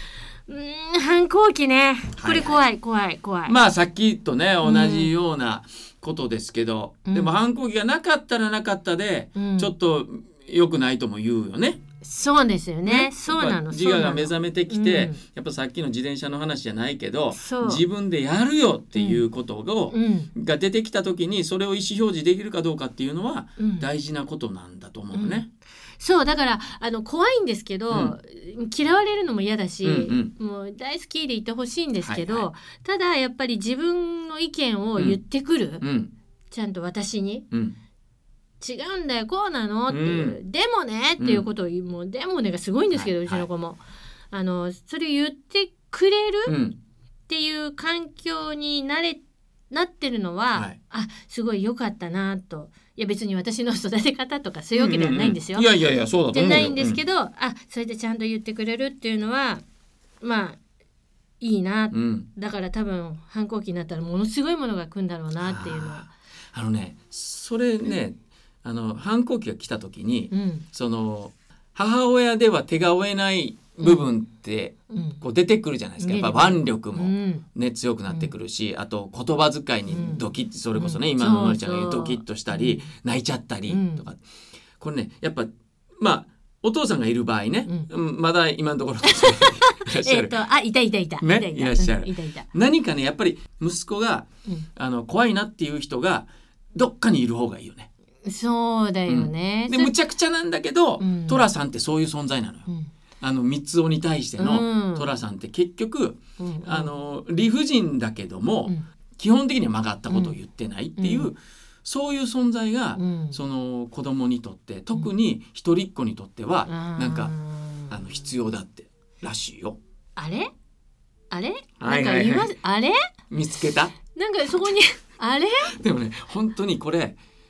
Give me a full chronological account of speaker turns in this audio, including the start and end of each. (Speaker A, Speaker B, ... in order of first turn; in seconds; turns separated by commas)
Speaker A: 0.5-3.5, Speaker B: 2.1-2.6, Speaker B: 3.5-11.8, Speaker A: 4.6-5.1, Speaker A: 7.1-7.3, Speaker A: 9.3-9.7, Speaker A: 12.0-15.2, Speaker B: 12.8-25.5, Speaker A: 17.3-17.8, Speaker A: 18.9-19.2, Speaker A: 19.9-20.3, Speaker A: 23.6-23.9, Speaker A: 25.1-25.4, Speaker A: 26.0-35.8, Speaker B: 27.9-28.1, Speaker B: 29.8-30.3, Speaker B: 32.0-32.5, Speaker B: 35.8-36.1, Speaker A: 36.5-37.5, Speaker A: 38.6-43.8, Speaker B: 39.9-40.4, Speaker B: 41.2-41.4, Speaker B: 42.9-43.5, Speaker A: 44.3-46.5, Speaker B: 46.5-46.8, Speaker A: 47.3-55.7, Speaker B: 54.7-57.0, Speaker A: 56.3-59.6, Speaker A: 60.2-60.6, Speaker A: 61.4-66.1, Speaker B: 61.9-62.3, Speaker B: 65.4-84.2, Speaker A: 70.3-70.6, Speaker A: 73.8-74.1, Speaker A: 74.9-75.2, Speaker A: 76.0-77.4, Speaker A: 79.9-80.2, Speaker A: 80.7-82.9, Speaker A: 83.7-84.0, Speaker B: 84.8-90.3, Speaker A: 89.1-92.5, Speaker B: 91.2-97.9, Speaker A: 98.2-99.9, Speaker B: 99.1-102.7, Speaker A: 101.0-101.5, Speaker B: 103.2-117.3, Speaker A: 104.4-105.1, Speaker A: 106.4-106.9, Speaker A: 110.1-110.3, Speaker A: 111.0-111.3, Speaker A: 113.0-113.4, Speaker A: 116.7-118.0, Speaker B: 117.9-119.8, Speaker A: 120.2-120.5, Speaker A: 121.3-123.0, Speaker B: 121.8-122.5, Speaker B: 123.3-124.0, Speaker A: 124.1-125.7, Speaker B: 125.7-127.2